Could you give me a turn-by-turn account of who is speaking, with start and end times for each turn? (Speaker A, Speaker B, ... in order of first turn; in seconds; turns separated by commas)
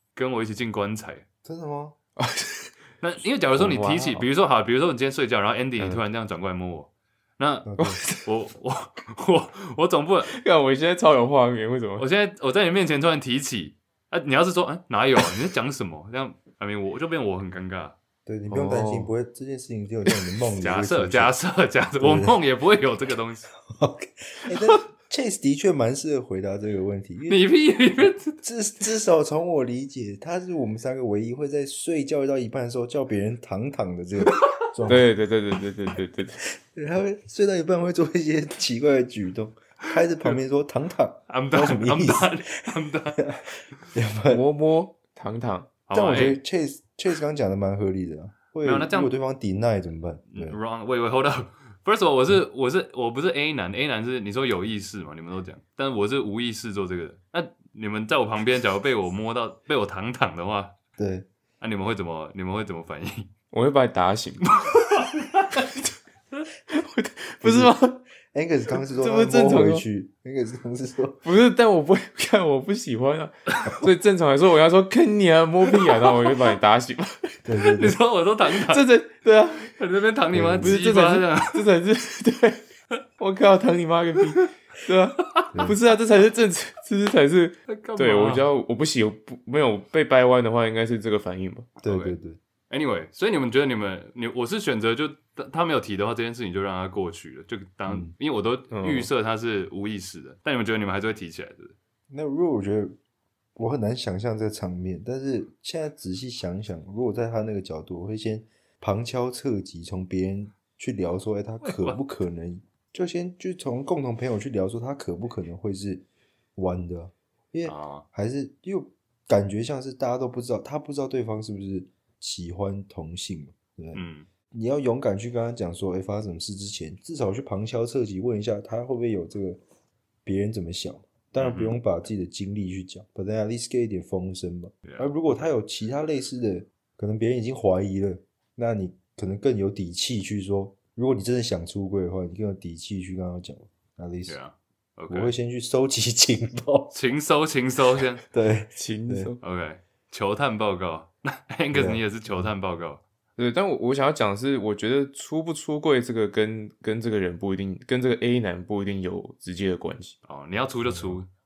Speaker A: 0.1-1.2, Speaker B: 1.4-2.0, Speaker C: 2.2-2.7, Speaker A: 3.0-10.3, Speaker C: 3.5-4.3, Speaker C: 5.8-6.0, Speaker B: 7.6-8.0, Speaker C: 7.8-8.3, Speaker C: 10.3-12.1, Speaker A: 12.0-18.0, Speaker B: 18.3-21.4, Speaker C: 18.5-19.1, Speaker A: 20.6-23.5, Speaker B: 22.0-22.4, Speaker B: 23.7-27.4, Speaker A: 27.3-28.4, Speaker B: 28.4-35.1, Speaker C: 34.9-36.5, Speaker B: 36.7-42.5, Speaker A: 41.3-43.2, Speaker B: 43.2-44.4, Speaker C: 44.3-45.7, Speaker A: 45.9-46.4, Speaker B: 45.9-50.6, Speaker A: 48.6-49.1, Speaker A: 50.3-60.7, Speaker B: 61.0-61.3, Speaker A: 61.6-63.3, Speaker C: 63.5-64.7, Speaker A: 64.5-65.6, Speaker C: 66.7-68.0, Speaker B: 67.4-67.8, Speaker B: 68.3-71.3, Speaker C: 68.7-69.9, Speaker C: 71.2-77.5, Speaker B: 77.5-78.0, Speaker A: 77.8-78.9, Speaker C: 78.5-79.8, Speaker A: 79.8-81.7, Speaker B: 80.3-80.8, Speaker C: 80.6-82.6, Speaker C: 83.2-91.7, Speaker A: 87.7-88.5, Speaker A: 91.8-92.2, Speaker B: 91.8-92.4, Speaker A: 92.7-101.8, Speaker B: 97.9-98.1, Speaker C: 98.7-99.1, Speaker B: 102.1-103.0, Speaker B: 103.5-129.6, Speaker A: 111.6-112.0, Speaker A: 117.6-118.0, Speaker A: 124.0-124.3, Speaker B: 130.2-144.4, Speaker A: 131.4-131.8, Speaker A: 134.9-135.5, Speaker A: 144.3-145.3, Speaker B: 145.1-146.9, Speaker A: 146.9-148.2, Speaker B: 148.3-149.3, Speaker C: 148.8-149.4, Speaker A: 149.4-153.0, Speaker B: 151.7-152.0, Speaker C: 153.4-160.2, Speaker A: 160.2-161.3, Speaker B: 160.9-161.2